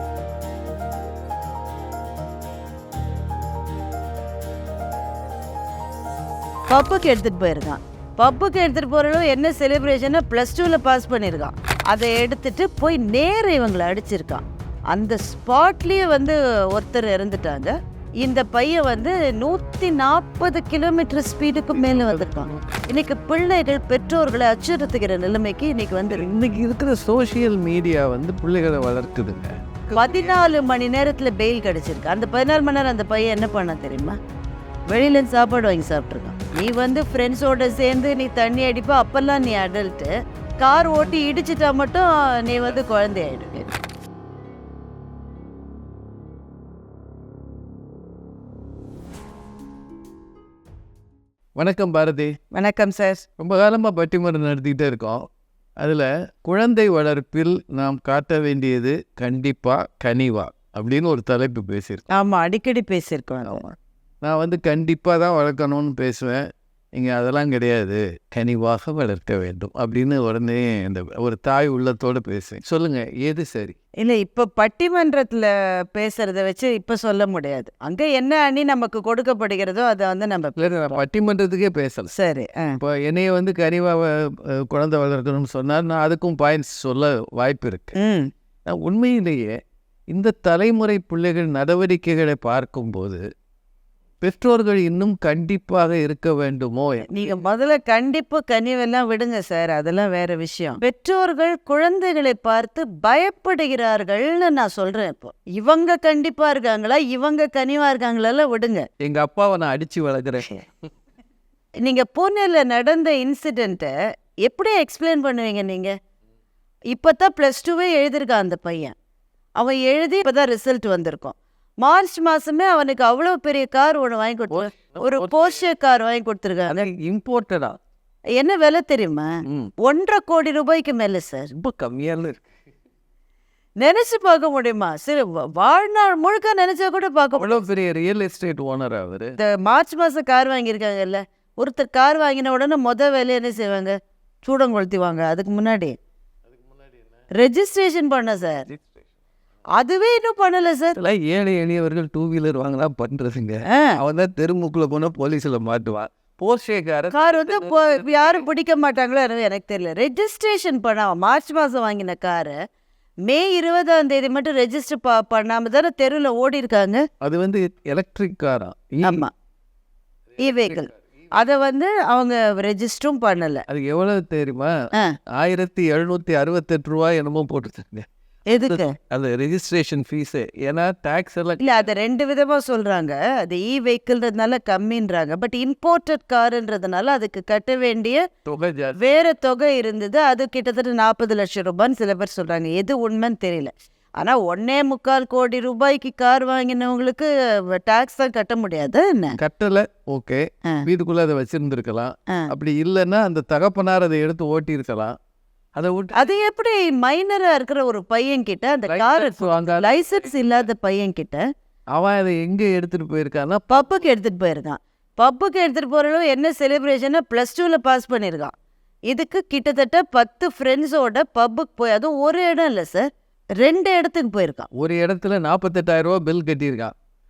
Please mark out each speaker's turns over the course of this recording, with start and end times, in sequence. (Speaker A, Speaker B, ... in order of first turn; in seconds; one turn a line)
Speaker A: 6.7-26.3
Speaker B: 21.7-22.6
Speaker B: 26.1-30.4
Speaker A: 29.9-34.2
Speaker A: 34.9-43.7
Speaker B: 51.5-52.3
Speaker A: 52.5-53.2
Speaker B: 53.4-55.2
Speaker B: 55.8-62.0
Speaker A: 62.1-63.7
Speaker B: 64.2-66.4
Speaker B: 66.9-73.8
Speaker A: 74.0-80.7
Speaker B: 80.6-82.1
Speaker A: 82.1-82.8
Speaker B: 82.8-87.9
Speaker A: 88.0-88.3
Speaker B: 88.7-89.5
Speaker B: 90.1-93.2
Speaker B: 94.2-97.1
Speaker A: 97.1-108.8
Speaker B: 109.0-110.7
Speaker A: 111.8-113.9
Speaker A: 114.4-115.9
Speaker A: 116.9-118.9
Speaker A: 119.6-126.8
Speaker B: 124.5-125.6
Speaker B: 126.7-127.8
Speaker A: 128.4-129.3
Speaker B: 129.4-129.7
Speaker A: 129.8-131.5
Speaker B: 131.6-132.4
Speaker A: 133.8-137.6
Speaker B: 137.3-139.3
Speaker A: 139.4-145.9
Speaker A: 147.4-148.7
Speaker A: 149.7-151.0
Speaker B: 151.0-158.4
Speaker A: 153.7-154.0
Speaker A: 157.1-162.6
Speaker A: 163.3-167.0
Speaker B: 167.2-169.2
Speaker A: 169.0-169.3
Speaker A: 170.4-173.6
Speaker B: 170.5-170.8
Speaker B: 173.7-174.7
Speaker B: 175.4-178.1
Speaker A: 178.5-178.9
Speaker B: 178.6-181.8
Speaker A: 181.6-188.2
Speaker B: 188.5-189.0
Speaker A: 189.0-199.4
Speaker B: 199.4-205.1
Speaker B: 205.8-206.3
Speaker A: 206.1-211.4
Speaker B: 208.9-210.3
Speaker B: 211.9-213.8
Speaker A: 213.7-218.5
Speaker A: 219.1-223.1
Speaker A: 223.6-224.7
Speaker B: 224.8-226.9